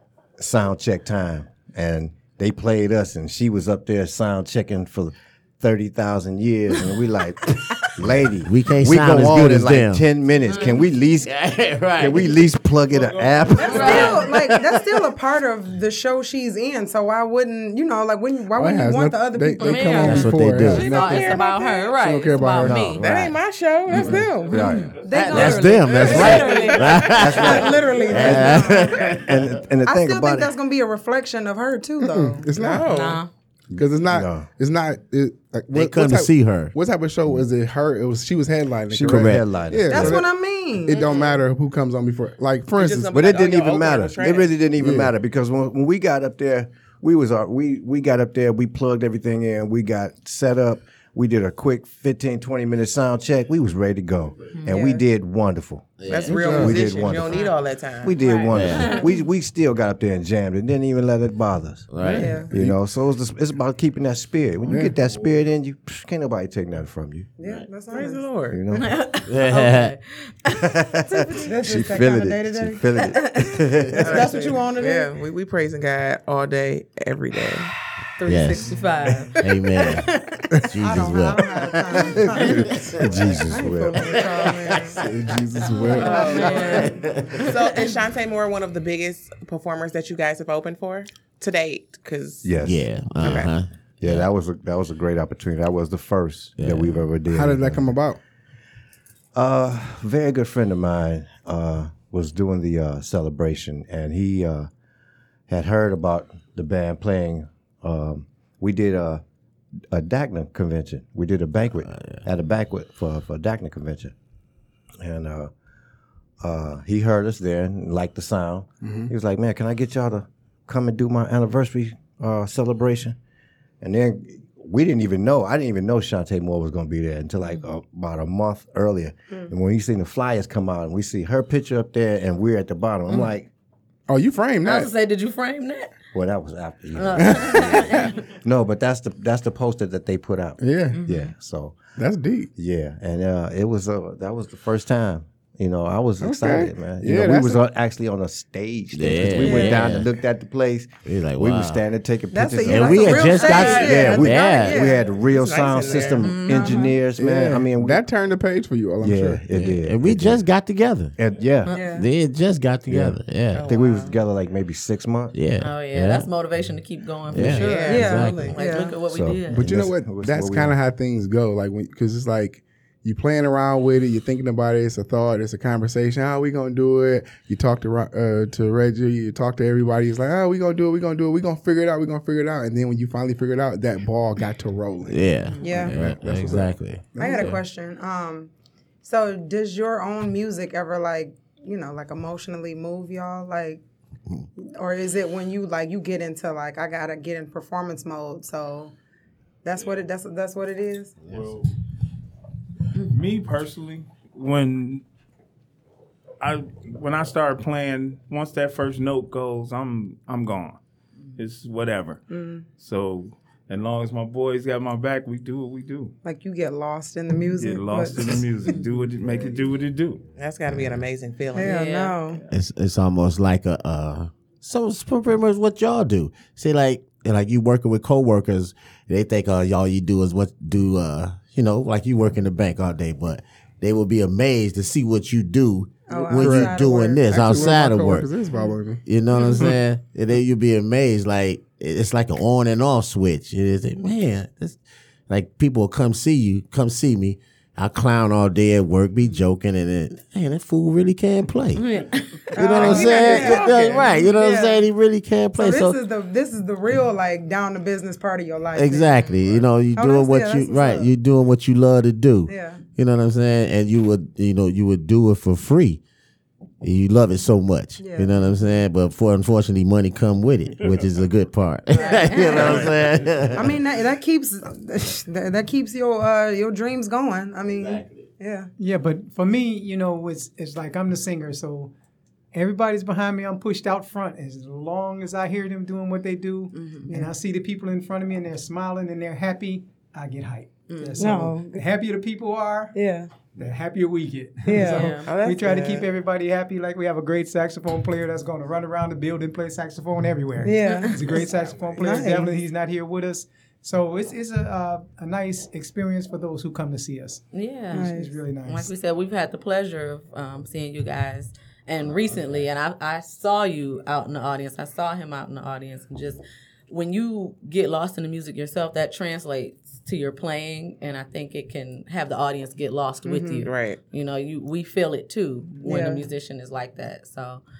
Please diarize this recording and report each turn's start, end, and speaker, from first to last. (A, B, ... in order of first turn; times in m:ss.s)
0:00.4-0:11.4 A
0:07.8-0:10.0 B
0:10.5-0:10.8 C
0:11.2-0:12.4 B
0:12.0-0:14.3 A
0:12.9-0:14.3 D
0:13.5-0:20.3 E
0:13.6-0:14.2 C
0:14.1-0:14.8 B
0:18.5-0:23.0 F
0:19.6-0:23.0 C
0:20.0-0:20.8 B
0:20.6-0:21.9 G
0:22.6-0:23.3 A
0:23.0-0:24.6 G
0:23.9-0:24.2 B
0:23.9-0:25.3 D
0:24.0-0:25.4 A
0:24.8-0:27.9 C
0:25.0-0:29.2 E
0:25.1-0:29.6 B
0:27.0-0:30.5 A
0:27.4-0:29.2 G
0:29.8-0:32.5 E
0:32.0-0:32.9 F
0:32.5-0:33.2 G
0:32.8-0:33.3 C
0:33.7-0:34.5 A
0:33.7-0:43.2 F
0:35.7-0:36.7 B
0:38.9-0:40.2 A
0:39.0-0:39.5 B
0:39.9-0:41.0 E
0:40.9-0:41.4 C
0:42.7-0:44.6 G
0:43.1-0:56.0 A
0:44.8-0:45.1 F
0:54.7-0:55.0 E
0:56.0-0:56.6 B
0:56.1-0:58.5 G
0:56.2-0:56.8 F
0:56.6-1:07.3 A
0:57.2-0:57.5 C
0:58.2-0:59.1 C
0:58.5-0:59.0 B
1:01.9-1:02.4 B
1:02.0-1:02.8 F
1:02.2-1:02.5 E
1:04.7-1:05.0 F
1:07.4-1:08.3 E
1:07.8-1:08.6 G
1:08.5-1:09.0 A
1:08.7-1:10.7 C
1:09.2-1:09.9 B
1:10.5-1:14.4 A
1:11.1-1:15.1 E
1:14.0-1:17.7 G
1:18.2-1:20.4 C
1:18.2-1:18.8 B
1:19.4-1:20.1 B
1:20.7-1:23.4 B
1:20.8-1:22.7 E
1:22.1-1:24.2 A
1:23.5-1:25.0 E
1:24.0-1:25.4 B
1:25.0-1:26.4 F
1:25.7-1:27.9 C
1:25.9-1:32.5 G
1:26.3-1:26.8 E
1:26.3-1:27.5 B
1:32.4-1:33.3 A
1:32.6-1:34.3 B
1:33.2-1:33.5 G
1:34.0-1:37.9 A
1:36.6-1:37.0 B
1:37.3-1:38.2 F
1:39.3-1:44.7 A
1:45.5-1:49.2 A
1:49.9-1:54.1 A
1:51.8-1:52.2 B
1:55.0-1:55.5 A
1:56.4-2:03.2 A
1:58.8-1:59.1 F
2:03.8-2:13.5 A
2:14.1-2:14.9 F
2:14.6-2:15.9 C
2:16.1-2:21.8 A
2:17.0-2:18.2 C
2:17.2-2:17.7 F
2:20.6-2:21.0 F
2:20.9-2:21.3 C
2:22.0-2:22.5 F
2:22.6-2:38.0 A
2:26.2-2:27.6 F
2:28.9-2:30.1 B
2:29.4-2:29.9 E
2:31.0-2:31.8 B
2:32.3-2:35.0 E
2:32.6-2:34.9 B
2:33.1-2:34.1 G
2:35.0-2:36.4 G
2:36.2-2:36.9 C
2:36.4-2:37.0 E
2:37.2-2:39.4 F
2:39.0-2:40.4 A
2:39.5-2:41.1 B
2:41.2-2:41.8 A
2:41.7-2:42.1 E
2:41.8-2:43.7 B
2:42.8-2:45.4 A
2:43.5-2:44.2 G
2:45.3-2:46.3 B
2:45.6-2:49.7 C
2:47.3-2:48.6 B
2:47.4-2:48.6 G
2:47.8-2:49.0 E
2:49.0-2:50.7 A
2:49.5-3:07.6 F
3:05.1-3:07.6 B
3:05.6-3:06.0 E
3:07.2-3:08.5 E
3:09.0-3:13.8 E
3:14.6-3:18.9 E
3:19.6-3:21.1 E
3:21.3-3:21.7 D
3:23.0-3:25.0 D
3:26.4-3:30.8 D
3:31.4-3:32.2 D
3:32.3-3:32.6 E
3:32.8-3:36.1 D
3:36.2-3:39.5 E
3:37.6-3:40.2 D
3:40.4-3:41.8 G
3:41.5-3:42.4 E
3:41.6-3:42.4 C
3:42.5-3:58.3 B
3:56.1-3:57.3 E
3:56.3-3:56.8 F
3:57.3-3:59.0 F
3:59.0-4:11.8 B
4:11.7-4:14.1 C
4:12.6-4:14.9 E
4:12.6-4:16.0 B
4:15.5-4:19.3 E
4:18.8-4:26.0 B
4:19.9-4:21.1 E
4:22.5-4:22.8 E
4:26.8-4:33.8 B
4:28.0-4:28.4 E
4:31.9-4:32.9 E
4:32.0-4:32.7 C
4:33.5-4:38.7 E
4:37.7-4:38.3 B
4:38.8-4:41.9 H
4:42.5-4:53.0 H
4:46.7-4:47.1 C
4:47.1-4:47.3 E
4:50.9-4:51.3 C
4:51.2-4:51.8 E
4:52.9-4:53.3 E
4:53.5-5:08.9 H
4:54.6-4:55.2 E
4:54.7-4:55.3 C
4:55.2-4:56.1 G
5:00.6-5:02.5 E
5:07.5-5:08.1 C
5:07.9-5:08.3 E
5:08.6-5:27.6 C
5:23.2-5:23.7 E
5:23.6-5:24.0 G
5:25.8-5:26.2 E